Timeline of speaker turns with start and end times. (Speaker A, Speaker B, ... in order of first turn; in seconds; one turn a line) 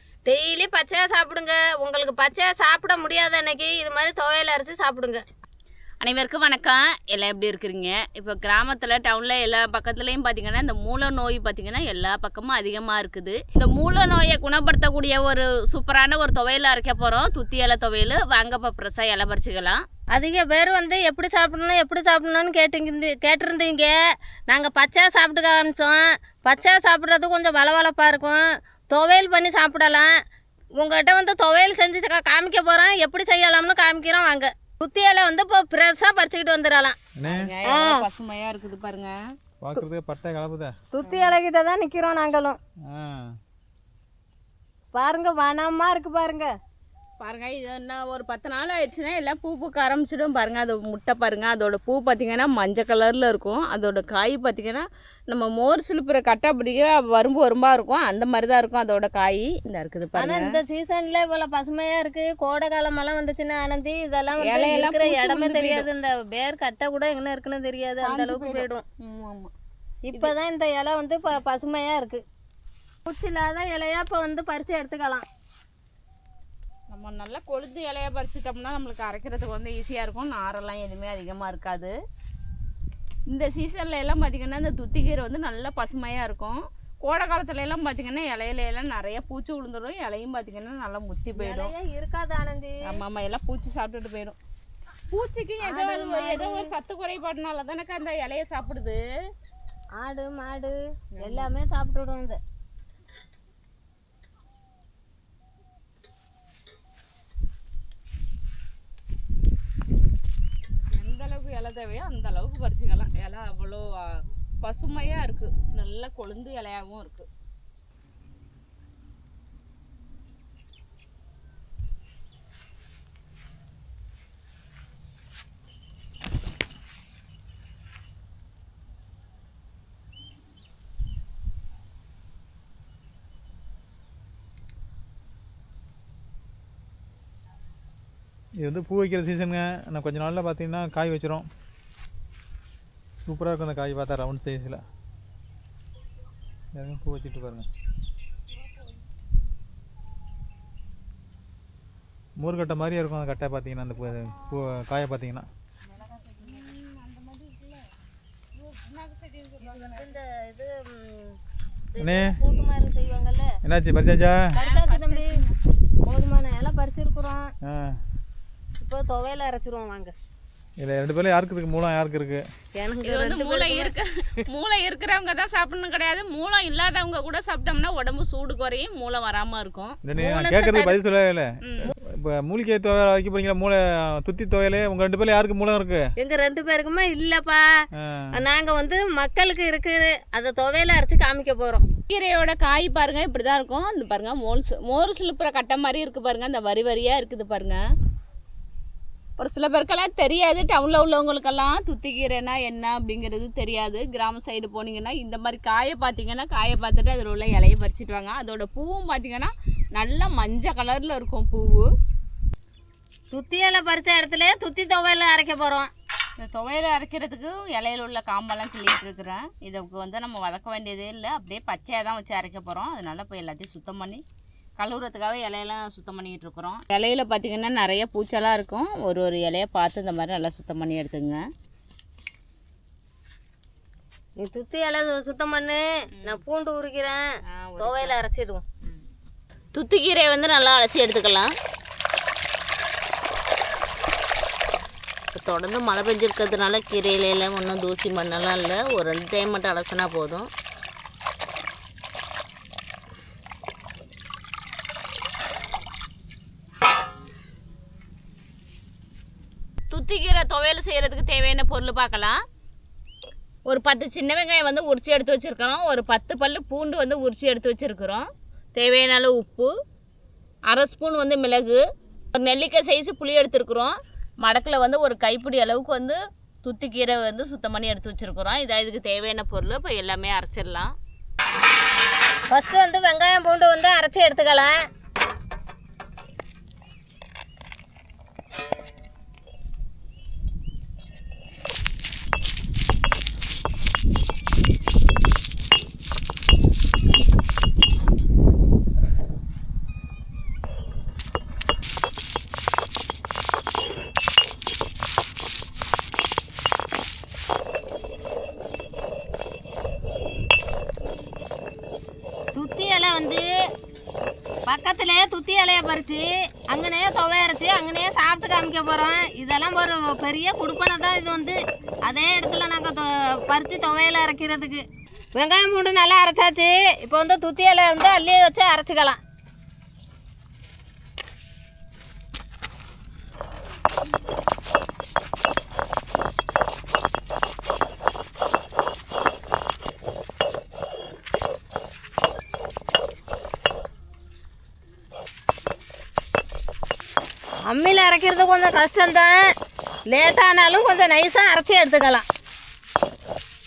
Speaker A: 0.3-5.2
Speaker B: 6.0-19.8
Speaker A: 20.1-24.0
Speaker A: 24.5-30.1
Speaker A: 30.8-37.0
Speaker C: 37.2-37.5
Speaker B: 37.3-39.1
Speaker A: 37.6-38.0
Speaker C: 39.6-40.8
Speaker A: 40.9-42.6
Speaker B: 41.0-41.3
Speaker C: 42.9-43.4
Speaker A: 44.9-46.5
Speaker B: 47.2-60.5
Speaker A: 60.2-68.8
Speaker B: 64.4-65.9
Speaker B: 68.0-69.5
Speaker A: 70.0-72.2
Speaker A: 73.1-75.3
Speaker B: 76.9-81.9
Speaker B: 83.3-91.7
Speaker A: 91.3-92.8
Speaker B: 92.9-94.4
Speaker B: 95.1-99.0
Speaker A: 95.6-96.7
Speaker A: 100.0-102.4
Speaker B: 101.2-101.5
Speaker B: 110.8-117.3
Speaker C: 138.6-141.5
Speaker C: 143.3-144.8
Speaker C: 146.8-147.7
Speaker C: 152.4-155.5
Speaker B: 155.9-157.9
Speaker B: 158.5-160.2
Speaker A: 159.6-161.4
Speaker A: 161.9-163.6
Speaker C: 162.0-162.4
Speaker C: 163.6-164.6
Speaker A: 164.5-165.3
Speaker B: 164.6-165.6
Speaker A: 166.1-167.5
Speaker C: 167.7-168.0
Speaker A: 168.8-170.1
Speaker C: 170.8-172.5
Speaker A: 172.8-173.9
Speaker B: 173.1-180.0
Speaker C: 180.1-186.1
Speaker A: 180.2-181.0
Speaker B: 181.6-181.9
Speaker A: 186.2-187.7
Speaker C: 188.0-188.4
Speaker A: 188.3-191.9
Speaker B: 192.1-197.8
Speaker B: 199.4-211.9
Speaker A: 213.3-215.9
Speaker B: 216.4-224.2
Speaker B: 224.8-231.4
Speaker A: 234.4-237.3
Speaker B: 237.5-238.2
Speaker A: 237.8-238.6
Speaker B: 239.7-241.5
Speaker B: 245.3-250.5
Speaker B: 259.9-262.4
Speaker B: 263.7-269.7
Speaker B: 270.7-271.8
Speaker B: 272.3-280.9
Speaker A: 282.5-284.7
Speaker A: 312.6-313.4
Speaker A: 314.7-329.2
Speaker A: 347.7-349.4
Speaker A: 350.1-352.2